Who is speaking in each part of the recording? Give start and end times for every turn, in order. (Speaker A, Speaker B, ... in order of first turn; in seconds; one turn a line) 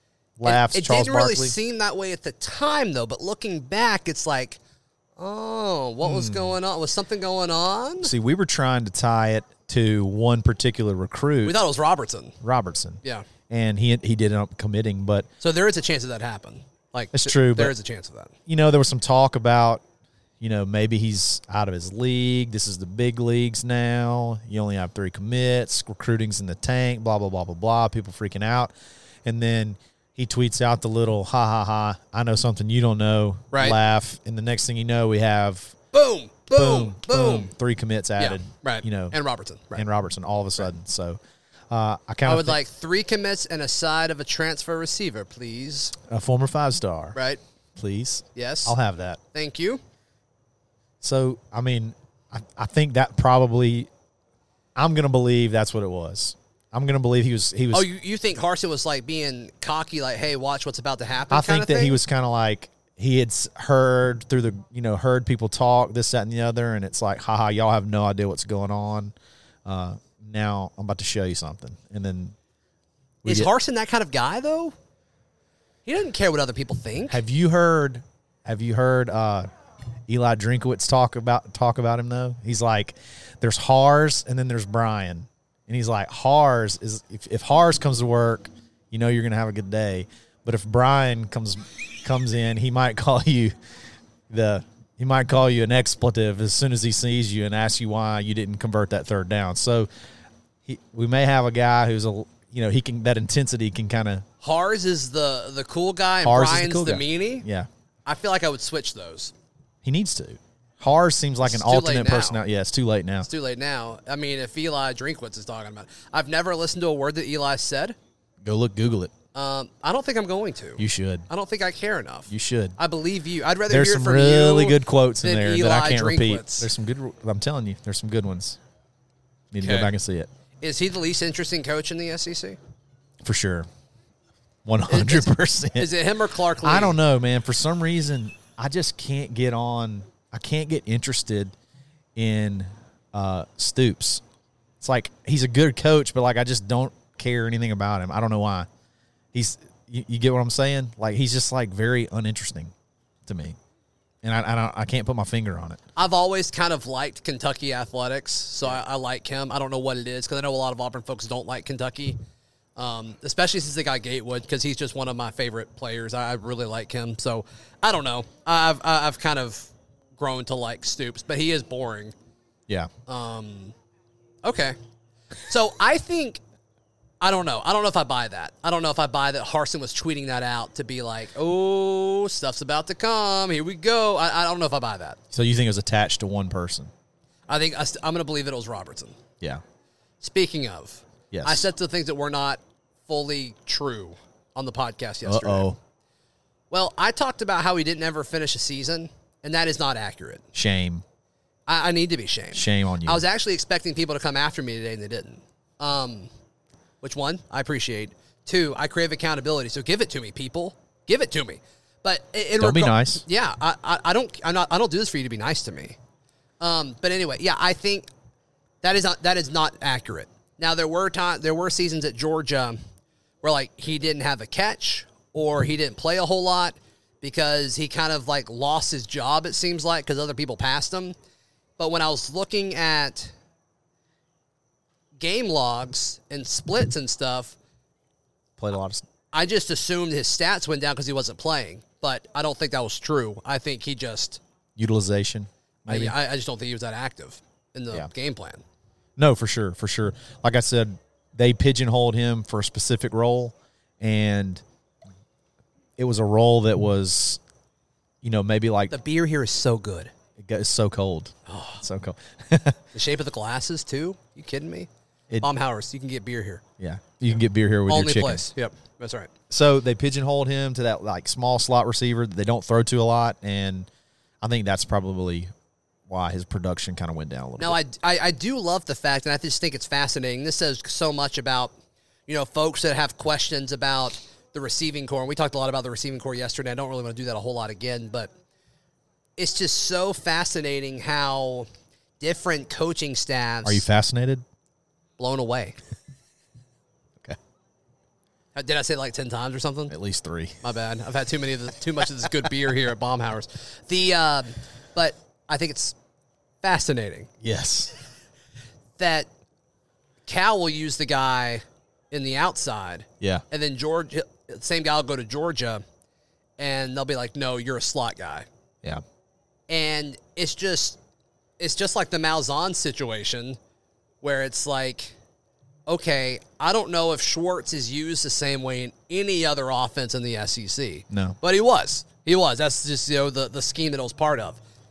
Speaker A: 0.4-1.6
Speaker B: 0.4-4.6
Speaker B: 5.2-8.1
Speaker A: 6.0-6.5
Speaker A: 8.0-11.6
Speaker B: 11.4-12.3
Speaker A: 12.4-15.3
Speaker B: 15.4-18.3
Speaker A: 17.1-17.8
Speaker A: 18.4-19.8
Speaker A: 20.4-28.7
Speaker A: 29.2-35.8
Speaker B: 33.5-33.8
Speaker B: 35.9-37.5
Speaker A: 36.5-39.1
Speaker B: 38.2-39.8
Speaker A: 39.7-42.6
Speaker B: 42.2-45.9
Speaker A: 46.1-47.2
Speaker B: 47.1-47.4
Speaker A: 47.8-49.2
Speaker B: 48.3-48.7
Speaker B: 49.3-49.8
Speaker A: 51.0-53.9
Speaker A: 54.8-57.9
Speaker B: 57.7-62.0
Speaker A: 61.3-72.3
Speaker A: 73.2-73.5
Speaker B: 73.2-74.7
Speaker B: 75.8-77.2
Speaker A: 77.1-79.5
Speaker A: 80.1-93.5
Speaker A: 94.3-99.9
Speaker A: 100.7-104.2
Speaker B: 104.4-107.5
Speaker A: 106.2-107.7
Speaker B: 108.0-109.3
Speaker A: 109.8-113.3
Speaker B: 111.4-112.4
Speaker B: 113.2-118.0
Speaker A: 118.4-119.1
Speaker B: 119.3-126.7
Speaker A: 120.8-121.3
Speaker A: 122.3-122.8
Speaker A: 123.7-128.6
Speaker A: 129.5-130.3
Speaker B: 129.6-129.9
Speaker B: 130.6-132.6
Speaker A: 133.2-133.7
Speaker A: 134.6-135.9
Speaker B: 134.9-137.0
Speaker A: 136.6-141.5
Speaker A: 142.2-144.2
Speaker A: 144.8-148.7
Speaker A: 149.3-152.7
Speaker A: 153.2-153.6
Speaker A: 154.2-155.8
Speaker B: 155.9-162.2
Speaker B: 162.8-172.1
Speaker B: 173.1-173.7
Speaker B: 174.4-174.8
Speaker B: 175.4-176.4
Speaker B: 177.2-185.2
Speaker A: 185.3-186.9
Speaker B: 187.5-189.2
Speaker B: 190.2-195.7
Speaker A: 191.3-191.7
Speaker A: 195.2-195.8
Speaker B: 196.7-200.4
Speaker A: 200.5-201.0
Speaker B: 201.7-206.3
Speaker A: 202.5-203.2
Speaker B: 207.0-216.0
Speaker A: 212.6-213.2
Speaker B: 216.6-218.1
Speaker B: 218.8-222.8
Speaker B: 223.4-231.1
Speaker B: 231.8-233.3
Speaker B: 235.2-237.6
Speaker A: 238.6-239.1
Speaker B: 239.3-244.4
Speaker A: 244.8-246.2
Speaker B: 245.9-248.6
Speaker A: 249.2-254.6
Speaker A: 256.0-257.4
Speaker A: 258.2-258.9
Speaker B: 258.9-260.1
Speaker A: 260.4-262.8
Speaker B: 261.5-261.8
Speaker B: 262.9-264.9
Speaker B: 265.4-266.6
Speaker A: 266.8-268.4
Speaker B: 267.9-269.3
Speaker A: 269.5-273.9
Speaker A: 274.4-275.5
Speaker A: 276.1-277.8
Speaker B: 277.6-281.7
Speaker B: 282.3-288.3
Speaker B: 289.4-291.7
Speaker B: 292.2-293.9
Speaker A: 293.6-294.4
Speaker B: 295.2-295.8
Speaker B: 298.5-299.9
Speaker A: 299.9-300.6
Speaker B: 300.6-305.9
Speaker B: 306.6-307.3
Speaker A: 307.4-307.9
Speaker B: 309.0-309.3
Speaker B: 310.2-315.8
Speaker B: 316.6-318.5
Speaker B: 319.7-321.0
Speaker B: 321.6-323.6
Speaker B: 324.2-325.1
Speaker B: 325.9-334.6
Speaker A: 331.1-331.4